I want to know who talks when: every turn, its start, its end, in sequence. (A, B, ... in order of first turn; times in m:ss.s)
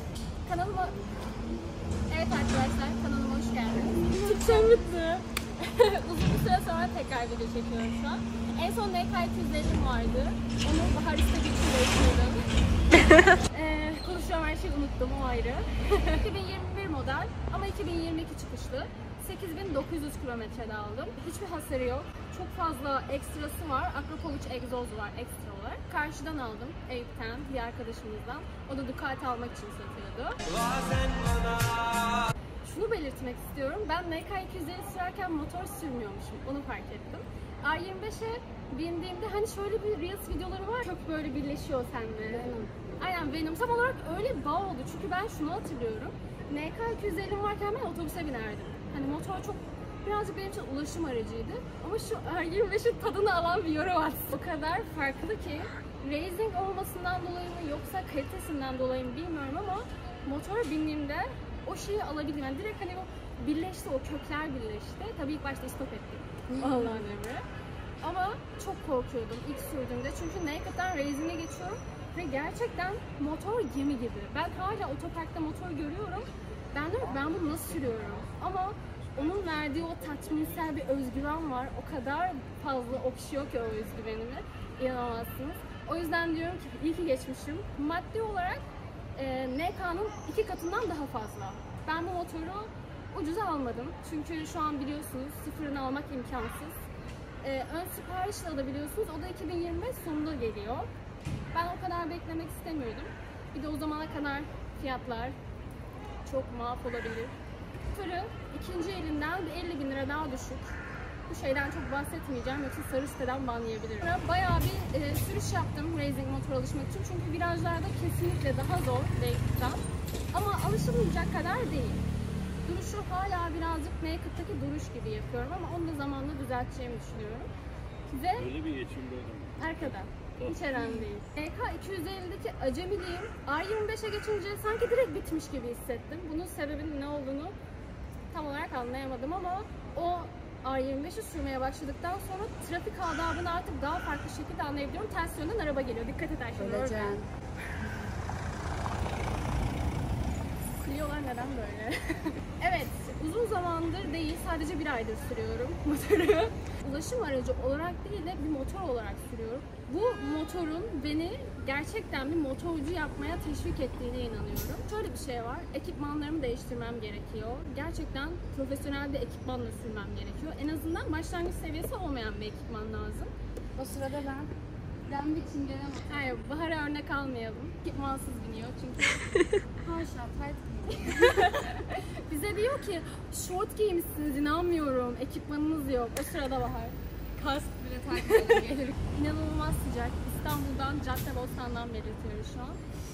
0:00.4-0:01.0 A
0:02.1-0:12.4 A
0:03.9-0:04.8 B
0:13.3-0:30.4 A
0:32.6-1:07.4 A
0:42.3-0:42.7 B
1:08.0-1:28.6 A
1:29.1-1:36.8 A
1:37.4-1:40.9 A
1:41.5-1:45.3 A
1:46.2-1:47.3 A
1:47.9-1:50.8 A
1:51.3-2:02.0 A
2:02.6-2:07.5 A
2:08.1-2:08.5 A
2:08.4-2:10.6 C
2:09.6-2:17.6 A
2:10.7-2:11.1 B
2:18.3-2:27.2 A
2:26.6-2:27.3 B
2:30.7-2:53.3 A
2:53.8-2:54.5 B
2:55.1-2:56.4 B
2:56.1-2:59.3 A
2:59.8-3:01.6 B
3:00.9-3:12.8 A
3:07.9-3:08.9 B